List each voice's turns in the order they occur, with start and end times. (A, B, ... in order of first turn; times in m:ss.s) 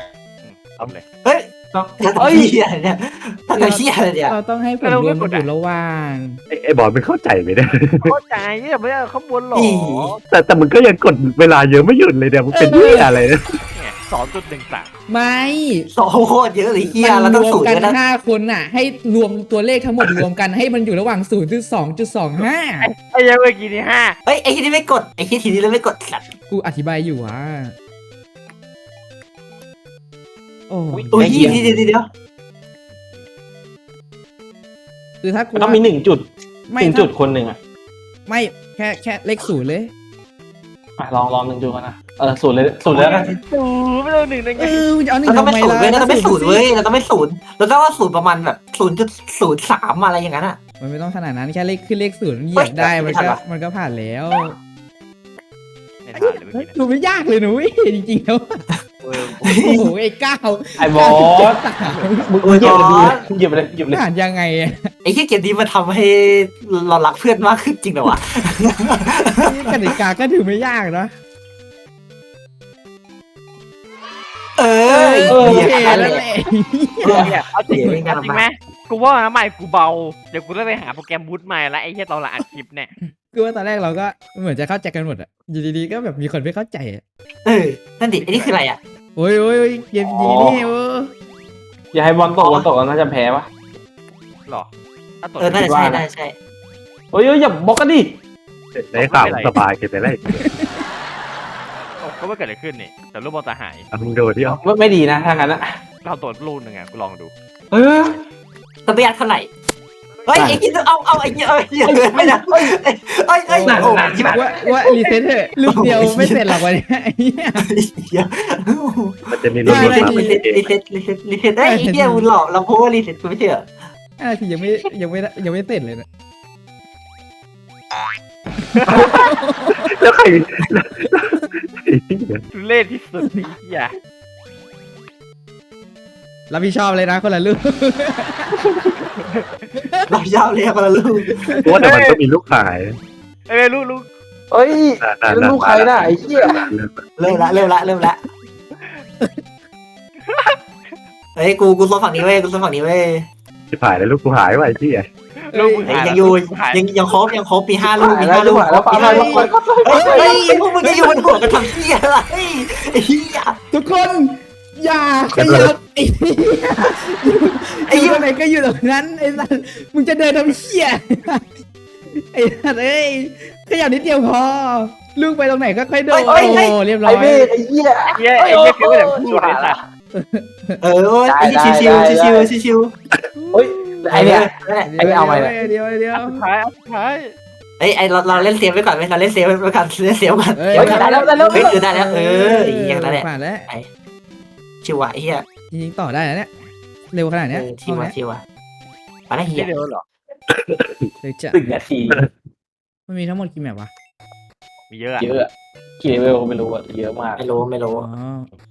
0:00.4-0:01.0 A
0:01.2-0:04.3 B
0:01.7-0:02.6 C
0:03.5-0:06.4 D
0:04.8-0:05.5 A
0:06.5-0:08.1 E
0:08.0-0:10.2 A
0:09.5-0:10.1 B
0:10.3-0:13.5 E
0:12.5-0:13.1 D
0:13.7-0:14.9 A
0:15.1-0:15.9 D
0:15.9-0:18.0 B
0:16.9-0:22.9 D
0:22.8-0:24.2 A
0:24.2-0:26.2 B
0:26.4-0:27.7 D
0:30.7-0:31.7 D
0:30.9-0:31.8 C
0:31.1-0:32.1 B
0:35.2-0:35.8 D
0:35.5-0:37.6 C
0:36.7-0:37.1 D
0:38.3-0:39.9 D
0:41.0-0:43.3 C
0:42.9-0:43.3 B
0:42.9-0:44.9 A
0:44.6-0:46.6 D
0:45.2-0:50.6 B
0:50.8-0:54.6 D
0:52.6-0:53.4 B
0:56.0-0:56.8 A
0:56.2-0:58.6 D
0:59.0-0:59.6 A
0:59.4-0:59.9 B
0:59.6-1:03.0 D
1:00.8-1:01.6 C
1:01.8-1:02.2 A
1:02.1-1:04.0 C
1:02.4-1:03.2 B
1:03.9-1:04.9 D
1:05.0-1:09.7 B
1:09.4-1:11.1 D
1:14.6-1:16.2 B
1:14.8-1:18.0 D
1:15.3-1:16.1 C
1:17.0-1:18.4 B
1:17.1-1:22.9 A
1:23.3-1:27.0 D
1:27.4-1:28.8 B
1:28.2-1:28.6 A
1:29.2-1:31.1 D
1:30.0-1:30.7 C
1:31.9-1:33.5 C
1:32.4-1:32.7 B
1:35.2-1:35.6 A
1:35.4-1:36.3 B
1:35.5-1:36.0 C
1:37.1-1:38.2 C
1:38.7-1:40.4 E
1:38.9-1:39.5 A
1:40.1-1:40.7 D
1:42.0-1:43.8 A
1:43.9-1:44.6 E
1:44.4-1:45.7 C
1:46.0-1:47.3 A
1:47.7-1:48.2 C
1:48.8-1:49.5 B
1:50.2-1:50.5 A
1:50.3-1:56.6 B
1:50.3-1:50.6 C
1:51.2-1:52.8 C
1:53.5-1:57.6 D
1:53.6-1:54.4 C
1:57.6-2:03.7 B
1:59.3-2:00.7 E
1:59.6-2:00.4 D
2:01.6-2:02.3 D
2:04.2-2:06.0 D
2:08.7-2:09.8 D
2:08.8-2:09.2 A
2:09.7-2:12.4 E
2:12.5-2:13.9 A
2:16.5-2:18.6 D
2:18.6-2:18.9 C
2:19.2-2:19.6 A
2:19.8-2:20.0 D
2:20.1-2:21.4 B
2:21.4-2:21.7 D
2:21.6-2:23.0 E
2:21.8-2:22.2 A
2:23.5-2:24.1 A
2:24.5-2:26.7 C
2:25.0-2:27.0 E
2:27.2-2:28.2 B
2:27.3-2:27.5 D
2:30.3-2:30.6 A
2:31.4-2:33.2 B
2:33.7-2:35.1 E
2:35.4-2:36.8 A
2:35.5-2:35.9 D
2:35.8-2:43.6 B
2:37.8-2:40.6 C
2:38.9-2:41.8 D
2:43.7-2:51.5 D
2:45.3-2:45.7 E
2:47.9-2:48.3 B
2:52.1-2:57.5 D
2:56.1-2:56.8 B
2:56.2-2:59.8 C
2:58.1-2:59.8 A
3:00.1-3:00.8 D
3:00.8-3:02.9 B
3:01.2-3:02.5 C
3:03.3-3:06.4 D
3:03.5-3:05.6 C
3:04.1-3:05.0 B
3:06.1-3:07.3 A
3:07.8-3:13.9 B
3:10.5-3:13.7 D
3:10.7-3:11.8 C
3:14.8-3:15.4 B
3:15.7-3:16.5 D
3:17.1-3:18.1 D
3:17.5-3:18.4 B
3:19.3-3:19.7 B
3:19.5-3:20.0 A
3:20.5-3:21.1 E
3:21.2-3:21.6 D
3:21.5-3:22.2 C
3:23.1-3:23.9 D
3:24.9-3:25.3 A
3:25.2-3:27.5 C
3:27.4-3:28.1 B
3:27.9-3:28.5 D